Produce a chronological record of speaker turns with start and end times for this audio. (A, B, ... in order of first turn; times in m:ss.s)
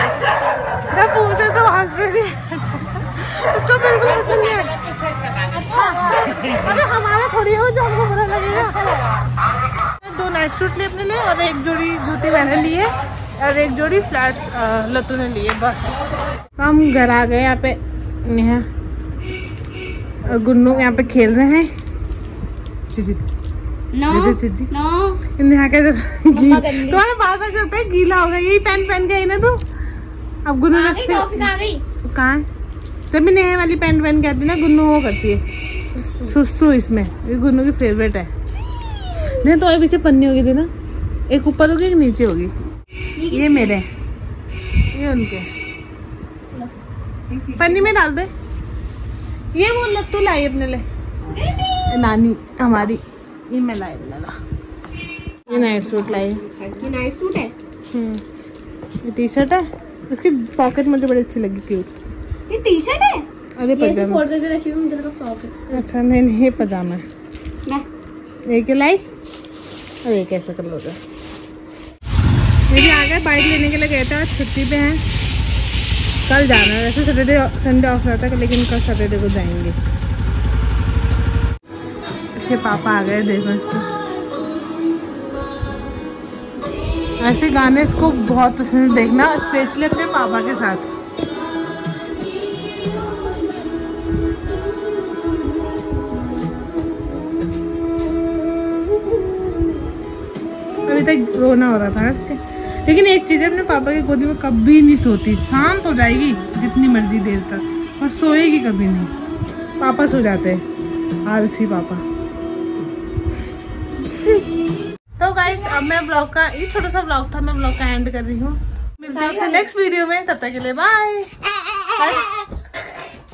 0:00.8-0:04.9 A
0:05.5-0:08.8 A
0:10.0-0:16.0 A
0:16.6-0:18.7 A
0:20.2-0:21.7 A
0:22.9-0:23.2 A
0:23.9-0:25.2 B
0:24.1-0:24.7 A
0:25.4-0:29.6 A
0:26.3-0:27.0 B
0:30.5-0:31.5 A
0:30.7-0:31.8 B
0:32.0-0:32.5 A
0:33.1-0:35.4 A
0:35.9-0:36.4 B
0:36.3-0:38.3 A
0:39.4-0:40.7 A
0:41.3-0:42.5 A
0:43.2-0:43.8 B
0:43.3-0:43.9 A
0:44.9-0:45.5 A
0:47.3-0:47.6 B
0:47.6-0:48.3 A
0:49.5-0:50.8 A
0:51.9-0:54.4 A
0:55.5-0:56.4 A
0:55.5-0:57.5 B
0:57.9-0:58.2 A
0:59.0-1:02.0 A
1:02.5-1:05.8 B
1:03.6-1:04.2 A
1:05.7-1:07.0 A
1:08.5-1:09.0 A
1:10.0-1:11.0 A
1:12.7-1:15.0 A
1:16.3-1:19.8 A
1:22.4-1:23.9 A
1:27.2-1:30.9 A
1:40.9-1:49.1 A
1:49.8-1:50.6 A
1:51.3-1:52.0 A
1:55.2-2:01.4 A
1:59.1-1:59.7 B
2:01.7-2:02.4 B
2:01.9-2:02.5 A